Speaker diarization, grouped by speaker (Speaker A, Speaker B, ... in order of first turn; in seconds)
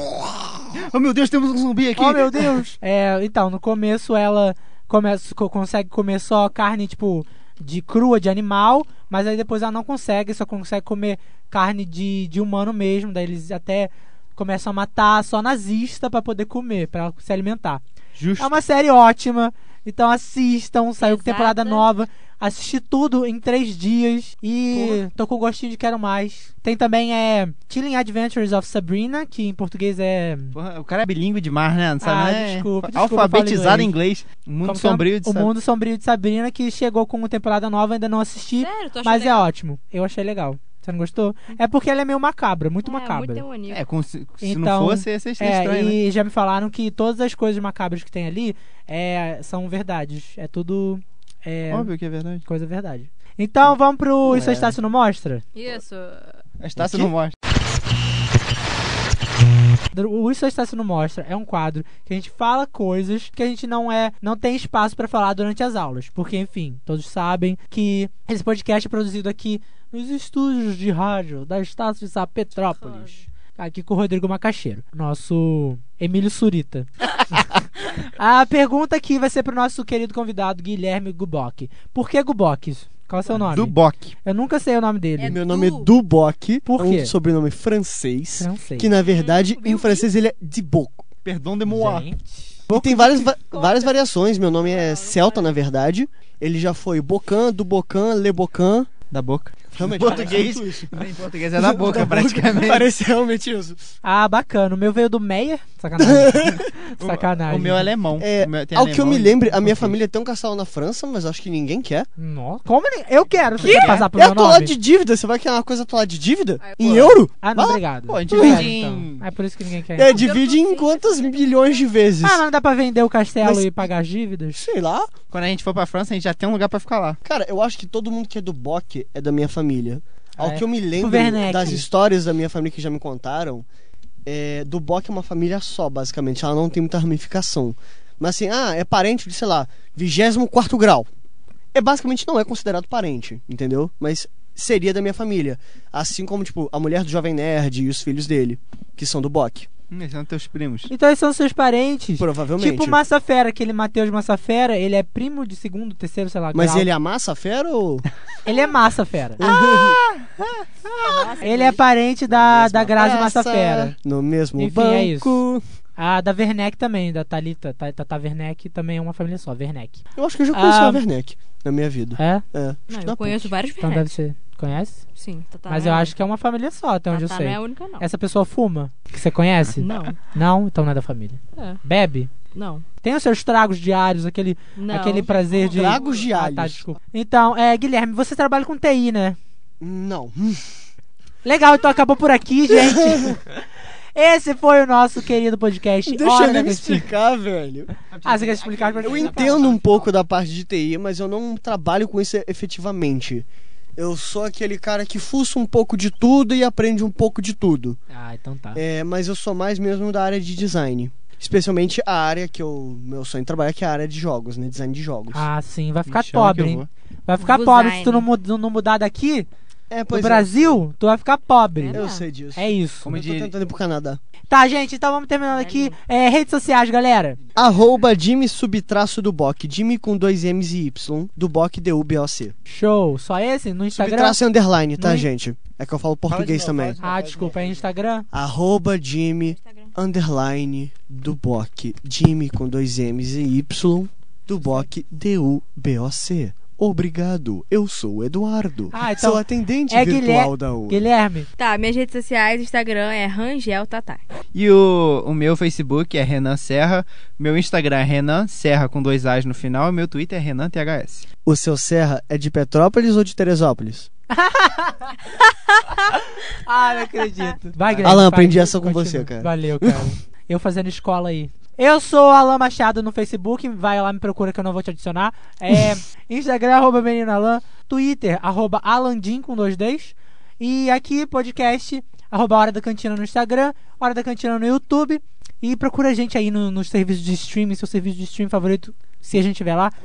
Speaker A: 0.7-2.6, 18.1-18.5, 30.5-35.5, 43.7-46.0, 51.7-52.4, 54.3-54.7, 56.6-57.3, 83.3-84.1, 91.2-92.1, 99.1-102.9, 107.0-109.9, 113.6-114.1, 118.1-119.2, 125.3-127.2, 149.9-150.9, 159.4-160.7, 198.1-200.2, 216.1-216.9, 223.0-223.5, 236.3-237.9, 254.5-261.3, 267.9-268.3
Speaker B: 1.9-17.8, 18.4-30.6, 32.0-33.9, 34.6-43.4, 44.4-51.9, 52.5-55.4, 56.8-57.1, 59.9-76.9, 78.0-85.4, 86.7-87.1, 88.4-88.9, 91.7-93.3, 104.0-107.9, 112.2-114.7, 117.4-120.2, 122.2-124.6, 130.4-131.8, 150.9-156.9, 158.4-159.5, 161.1-163.9, 164.6-165.4, 166.0-171.0, 172.2-172.4, 173.8-175.0, 175.7-182.3, 183.0-189.4, 191.4-193.5, 194.1-197.1, 198.2-199.7, 208.1-208.8, 215.3-219.5, 220.1-222.0, 222.6-223.2, 224.5-227.4, 232.7-234.4, 235.0-235.3, 237.0-238.3, 248.9-251.5, 264.3-265.2, 266.1-289.9
Speaker C: 21.0-21.9, 38.6-39.5, 42.8-43.8, 55.5-56.4, 72.8-73.2, 85.2-85.9, 89.0-90.0, 93.5-95.5, 113.6-113.9, 116.6-117.2, 120.0-121.9, 161.0-161.8, 172.9-174.1, 175.2-176.1, 177.1-178.0, 179.8-180.2, 182.5-182.8, 184.8-186.2, 217.4-218.3, 221.8-222.2, 225.6-225.9, 239.4-239.9, 244.5-244.8, 251.6-254.2, 267.0-267.5
Speaker D: 85.2-91.0, 92.7-98.9, 99.7-103.8, 106.0-106.7, 108.2-112.1, 113.7-117.8, 118.3-118.7, 119.9-122.4, 123.4-123.9, 124.6-125.1, 127.2-133.7, 134.2-141.1, 141.7-149.7, 152.2-153.0, 156.5-158.1, 159.4-160.0, 162.3-165.6, 170.2-173.5, 185.7-187.0, 189.8-190.7, 192.7-193.4, 196.0-197.9, 199.0-208.0, 208.7-215.4, 219.9-220.8, 221.9-224.2, 227.6-232.5, 233.9-237.0, 238.3-251.0, 261.4-264.1, 268.0-270.1